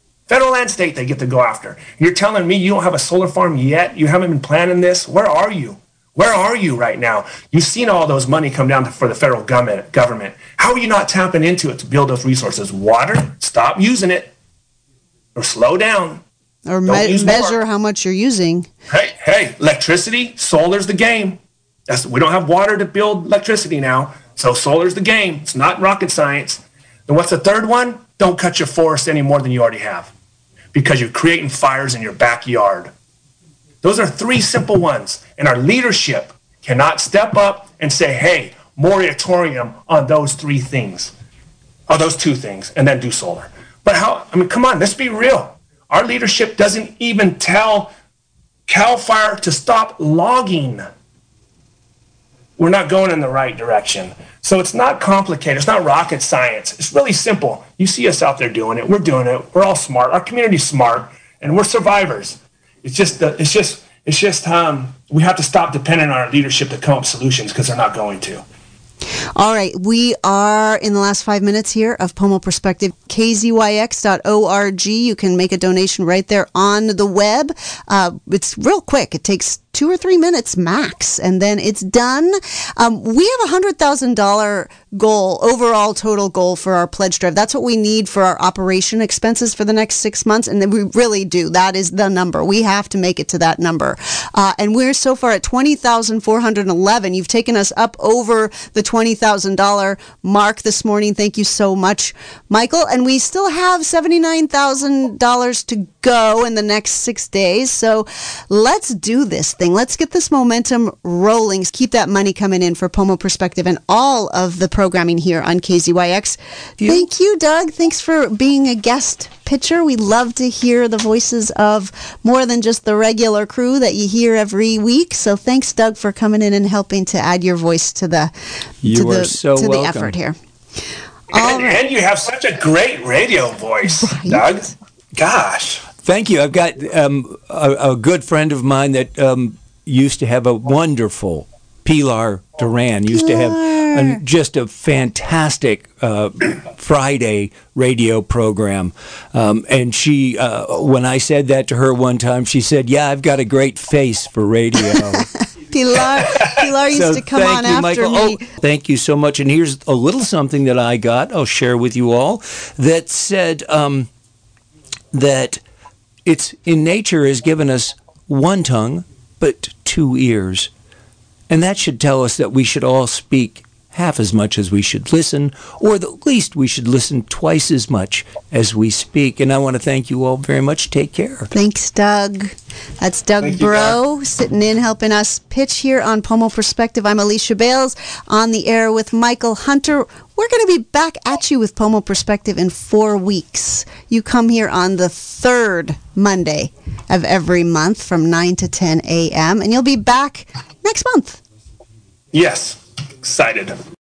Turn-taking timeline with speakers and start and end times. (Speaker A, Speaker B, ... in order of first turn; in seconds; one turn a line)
Speaker A: 0.3-14.3
Speaker A: 15.3-16.2
Speaker B: 16.7-18.7
Speaker A: 16.9-17.6
Speaker A: 18.9-30.1
Speaker A: 30.7-32.9
Speaker A: 33.8-41.1
Speaker A: 41.9-47.9
Speaker A: 48.7-50.9
Speaker A: 52.6-68.4
Speaker B: 69.4-128.3
Speaker C: 116.8-117.1
Speaker C: 128.8-130.2
Speaker B: 128.8-130.4
Speaker A: 131.3-135.9
Speaker B: 131.3-131.8
Speaker B: 133.9-134.5
Speaker C: 136.0-155.3
Speaker B: 143.1-144.2
Speaker B: 155.7-158.4
Speaker C: 156.9-164.1
Speaker C: 165.1-165.6
Speaker C: 166.3-170.7
Speaker C: 171.5-181.5
Speaker B: 181.5-201.4
Speaker A: 183.4-184.0
Speaker A: 202.3-203.8